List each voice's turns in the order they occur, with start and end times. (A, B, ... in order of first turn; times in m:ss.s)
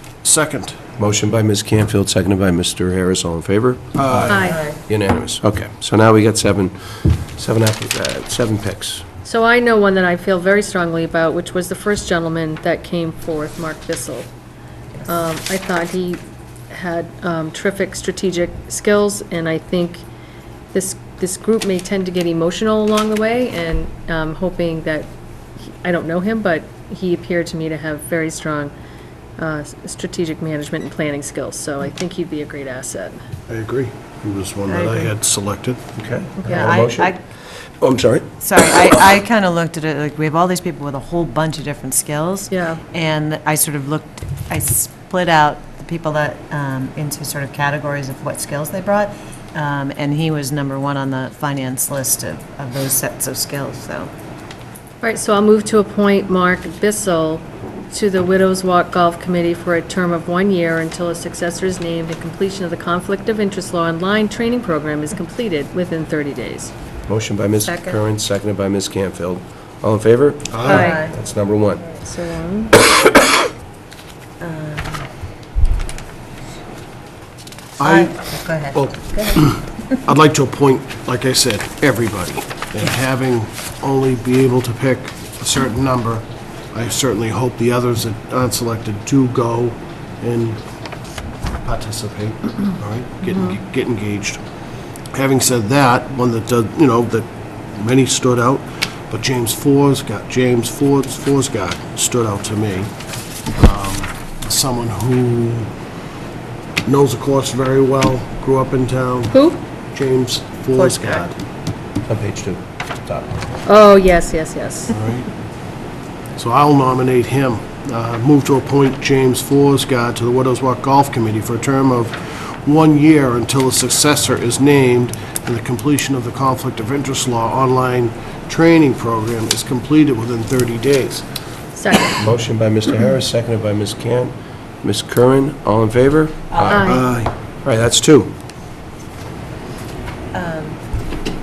0:00.2-0:00.8 A
0:01.0-0:09.0 B
0:04.0-0:04.6 A
0:04.3-0:04.6 C
0:04.4-0:04.8 D
0:09.2-0:14.3 C
0:15.1-0:20.0 C
0:20.7-0:28.7 C
0:29.4-0:33.2 C
0:33.5-0:35.8 A
0:34.7-0:35.1 C
0:36.0-0:37.2 B
0:36.4-0:36.7 C
0:36.5-0:37.2 D
0:37.8-0:38.3 B
0:38.4-0:54.1 D
0:42.5-0:42.8 C
0:55.0-1:06.7 C
1:07.1-1:11.9 B
1:07.7-1:08.0 D
1:10.5-1:10.9 A
1:10.6-1:11.0 C
1:10.6-1:11.2 D
1:11.9-1:12.8 C
1:14.4-1:15.1 D
1:17.8-1:18.1 A
1:17.8-1:20.0 D
1:18.8-1:30.6 A
1:31.6-1:34.4 A
1:33.2-1:33.6 C
1:35.1-1:42.9 A
1:43.6-1:45.7 A
1:46.9-1:49.4 A
1:49.3-1:49.6 C
1:49.9-1:51.4 A
1:50.8-1:51.2 D
1:52.1-1:53.6 B
1:53.7-1:55.0 C
1:54.9-1:55.3 A
1:56.4-2:11.2 A
2:11.8-2:12.2 C
2:12.2-2:16.9 B
2:16.5-2:17.1 D
2:16.7-2:17.0 C
2:16.8-2:17.3 A
2:17.6-2:18.3 B
2:20.3-2:20.8 D